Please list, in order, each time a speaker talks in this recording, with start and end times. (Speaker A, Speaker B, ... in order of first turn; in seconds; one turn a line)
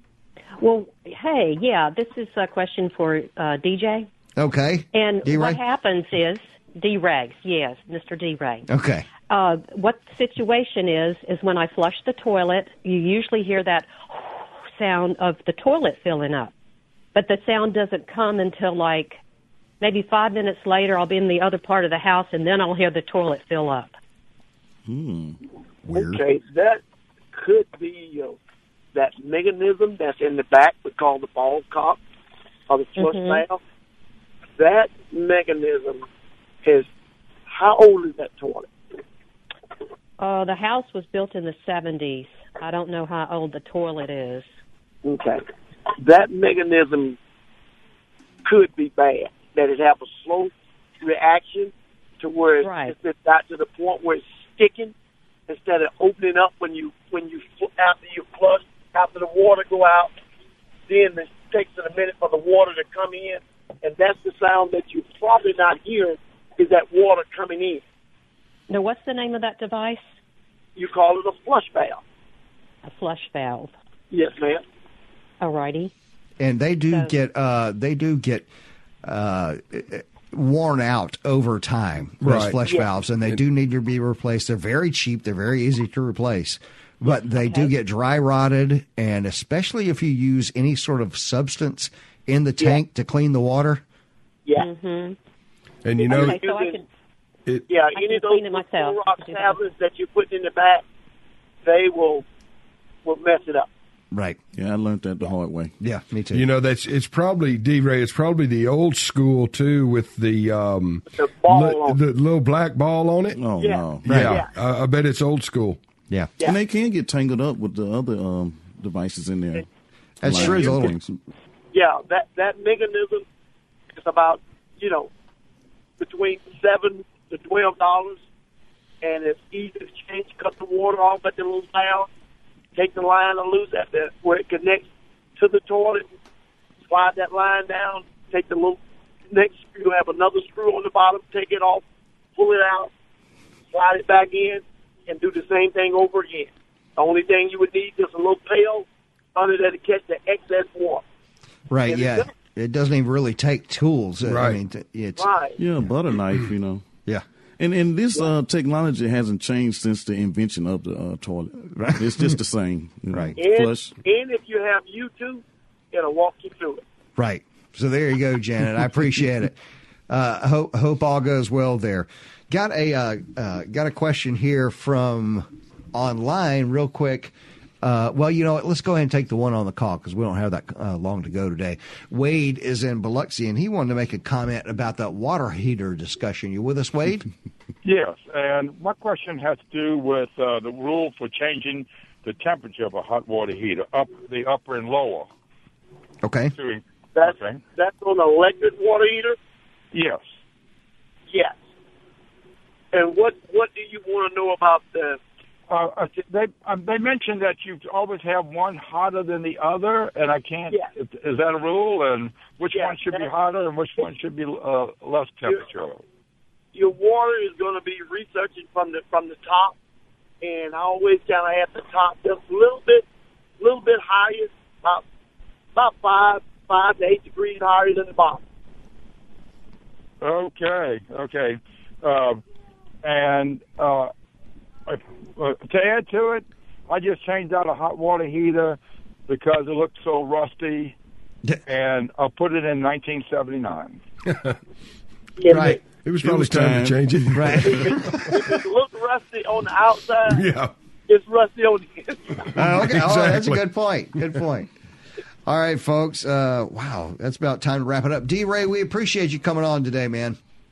Speaker A: 0.6-4.1
Speaker B: 4.4-5.6
Speaker A: 4.9-8.7
Speaker B: 8.7-9.1
Speaker A: 9.3-16.5
Speaker A: 17.1-19.2
Speaker A: 19.8-23.9
Speaker C: 24.9-25.4
Speaker B: 25.8-26.2
Speaker D: 25.9-26.8
Speaker D: 27.3-28.4
Speaker D: 28.9-32.0
Speaker D: 32.7-33.6
Speaker A: 33.0-33.4
Speaker D: 34.6-36.0
Speaker D: 37.5-38.7
Speaker A: 40.2-44.5
Speaker D: 45.0-45.4
Speaker D: 46.0-47.2
Speaker D: 48.4-54.9
Speaker A: 52.6-52.9
Speaker D: 55.5-60.1
Speaker D: 60.9-67.8
Speaker A: 68.7-70.0
Speaker D: 70.8-72.0
Speaker A: 72.8-73.7
Speaker D: 74.1-74.6
Speaker A: 75.4-75.9
Speaker B: 76.4-78.5
Speaker B: 79.0-93.8
Speaker E: 82.2-82.5
Speaker A: 94.5-95.2
Speaker E: 95.8-96.4
Speaker D: 96.0-96.8
Speaker A: 96.0-96.8
Speaker D: 97.7-100.8
Speaker A: 97.9-99.6
Speaker D: 101.6-102.2
Speaker D: 103.0-103.7
Speaker B: 104.1-104.4
Speaker C: 104.5-105.7
Speaker B: 105.8-106.5
Speaker E: 106.3-113.4
Speaker D: 111.1-112.0
Speaker C: 113.3-114.4
Speaker D: 113.6-114.5
Speaker E: 114.0-115.8
Speaker B: 114.0-114.3
Speaker C: 116.4-119.7
Speaker B: 120.2-121.0
Speaker C: 120.2-121.2
Speaker D: 120.3-120.7
Speaker D: 121.7-123.2
Speaker D: 123.9-125.1
Speaker D: 126.0-128.2
Speaker D: 129.0-132.1
Speaker D: 132.8-136.0
Speaker D: 136.9-138.8
Speaker D: 139.3-141.8
Speaker D: 142.3-142.9
Speaker D: 143.7-151.0
Speaker B: 151.7-155.3
Speaker D: 151.9-152.3
Speaker E: 154.2-154.6
Speaker D: 155.2-155.6
Speaker C: 155.6-156.8
Speaker C: 157.6-163.9
Speaker B: 161.7-162.3
Speaker B: 163.1-163.3
Speaker D: 163.4-166.8
Speaker B: 167.2-169.6
Speaker B: 170.1-187.3
Speaker F: 187.8-195.3
Speaker B: 196.2-196.5
Speaker F: 196.6-197.6
Speaker D: 197.1-199.4
Speaker F: 199.9-200.3
Speaker D: 201.3-201.6
Speaker D: 202.9-205.2
Speaker F: 205.7-216.0
Speaker D: 212.7-213.3
Speaker D: 216.7-219.8
Speaker D: 220.4-223.0
Speaker D: 223.6-225.0
Speaker D: 225.7-228.4
Speaker F: 230.2-232.4
Speaker F: 233.0-234.1
Speaker F: 234.9-240.9
Speaker F: 241.7-244.0
Speaker E: 244.3-244.6
Speaker D: 245.4-245.8
Speaker B: 245.5-245.8
Speaker E: 246.0-247.9
Speaker C: 246.2-247.7
Speaker B: 247.3-248.3
Speaker D: 247.6-250.4
Speaker E: 250.2-250.7
Speaker D: 251.1-252.5
Speaker E: 252.5-253.6
Speaker B: 252.6-254.7
Speaker B: 255.4-260.4